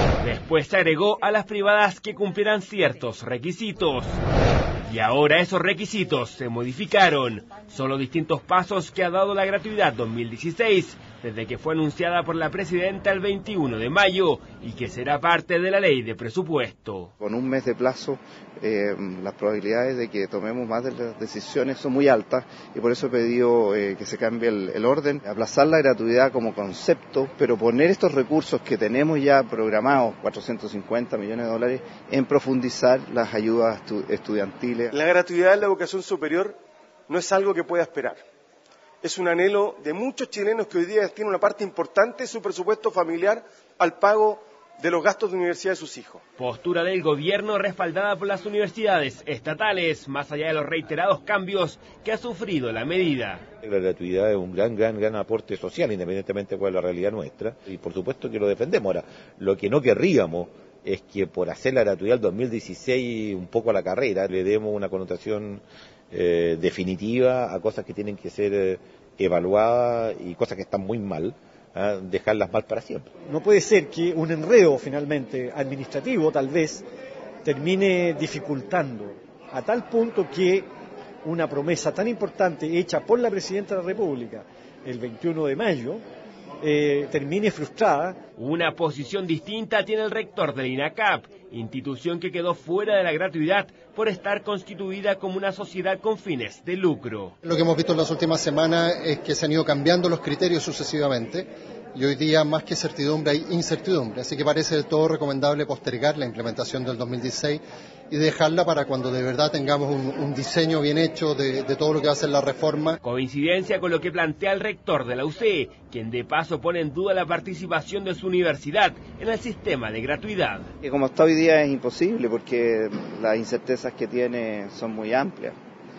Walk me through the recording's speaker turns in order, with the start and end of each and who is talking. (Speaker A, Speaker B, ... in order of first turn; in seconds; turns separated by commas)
Speaker A: 0.2-4.1, Speaker A: 4.9-17.1, Speaker B: 17.2-34.9, Speaker C: 34.9-36.6, Speaker C: 37.1-38.2, Speaker C: 39.0-46.2, Speaker A: 46.4-53.4, Speaker D: 53.6-73.1, Speaker E: 73.3-76.8, Speaker E: 77.4-80.7, Speaker E: 81.2-86.0, Speaker E: 86.6-88.2, Speaker A: 88.4-97.3, Speaker F: 97.4-113.0, Speaker A: 113.0-120.7, Speaker B: 120.8-125.5